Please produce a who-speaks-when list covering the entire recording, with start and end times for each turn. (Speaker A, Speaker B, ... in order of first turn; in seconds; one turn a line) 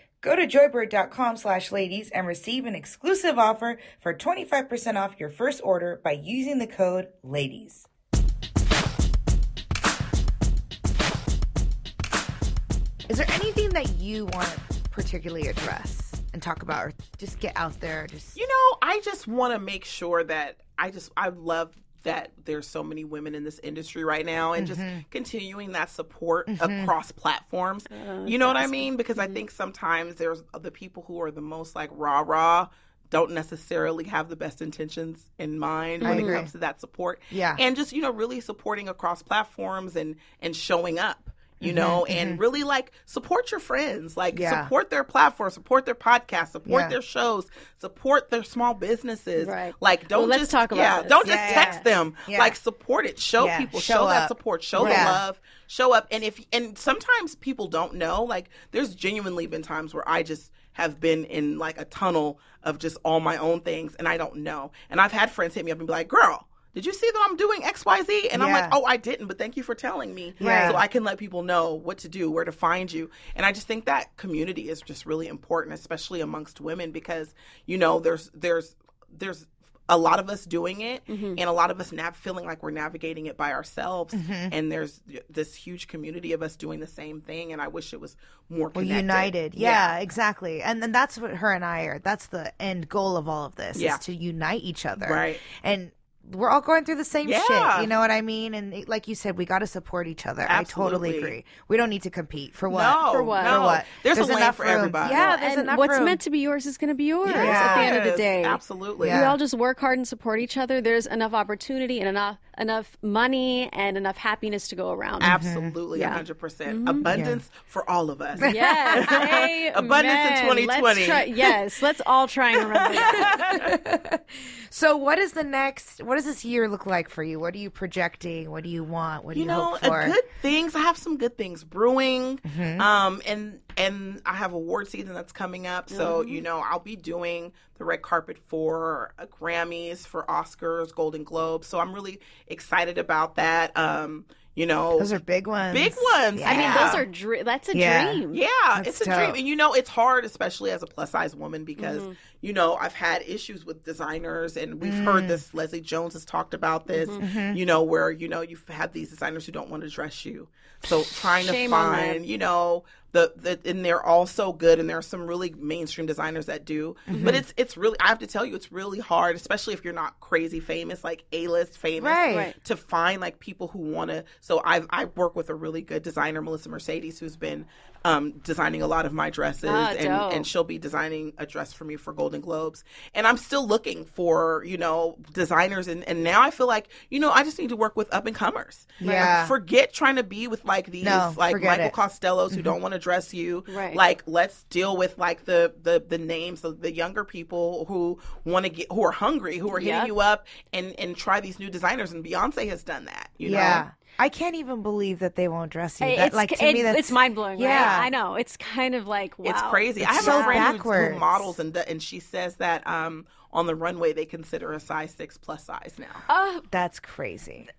Speaker A: 0.2-7.9
Speaker A: 13.1-18.4
Speaker B: 18.4-89.9
Speaker A: 24.6-25.0
Speaker A: 26.5-26.9
Speaker C: 27.9-29.4
Speaker C: 36.0-36.4
Speaker A: 36.0-36.5
Speaker A: 37.3-37.6
Speaker A: 41.6-42.4
Speaker A: 44.3-44.7
Speaker A: 46.7-47.0
Speaker C: 49.4-51.8
Speaker A: 51.2-52.6
Speaker A: 53.4-55.2
Speaker C: 54.8-55.2
Speaker A: 68.3-68.8
Speaker A: 70.4-70.8
Speaker C: 70.4-70.8
Speaker C: 81.1-81.4
Speaker A: 84.1-84.5
Speaker A: 88.7-106.2
Speaker B: 93.7-94.0
Speaker B: 95.0-95.4
Speaker B: 97.2-97.9
Speaker B: 100.5-101.3
Speaker B: 102.7-105.2
Speaker C: 103.0-103.8
Speaker C: 105.1-115.4
Speaker A: 107.2-108.0
Speaker B: 107.2-109.3
Speaker A: 109.0-109.4
Speaker A: 115.2-115.8
Speaker B: 115.2-121.6
Speaker C: 115.9-117.1
Speaker A: 117.1-117.4
Speaker C: 118.4-123.7
Speaker A: 118.4-119.3
Speaker B: 122.9-123.8
Speaker A: 123.0-130.2
Speaker B: 129.3-145.1
Speaker A: 132.4-132.9
Speaker C: 135.9-136.4
Speaker A: 145.0-147.0
Speaker B: 145.7-147.1
Speaker C: 146.4-148.4
Speaker A: 147.7-148.2
Speaker B: 148.3-203.8
Speaker A: 148.8-149.4
Speaker C: 151.8-152.2
Speaker A: 154.8-155.4
Speaker C: 156.9-157.2
Speaker A: 157.2-157.6
Speaker C: 161.4-162.2
Speaker A: 167.1-167.4
Speaker C: 167.1-167.4
Speaker A: 172.0-172.5
Speaker C: 172.3-172.5
Speaker C: 179.6-180.5
Speaker A: 189.0-189.6
Speaker C: 189.0-189.3
Speaker A: 191.0-191.9
Speaker A: 192.5-192.8
Speaker C: 193.7-194.0
Speaker C: 199.7-200.1
Speaker A: 203.4-208.1
Speaker C: 203.5-203.8
Speaker C: 206.0-210.7
Speaker B: 207.7-208.0
Speaker B: 209.4-216.2
Speaker A: 210.0-211.5
Speaker C: 216.3-216.7
Speaker A: 216.7-217.7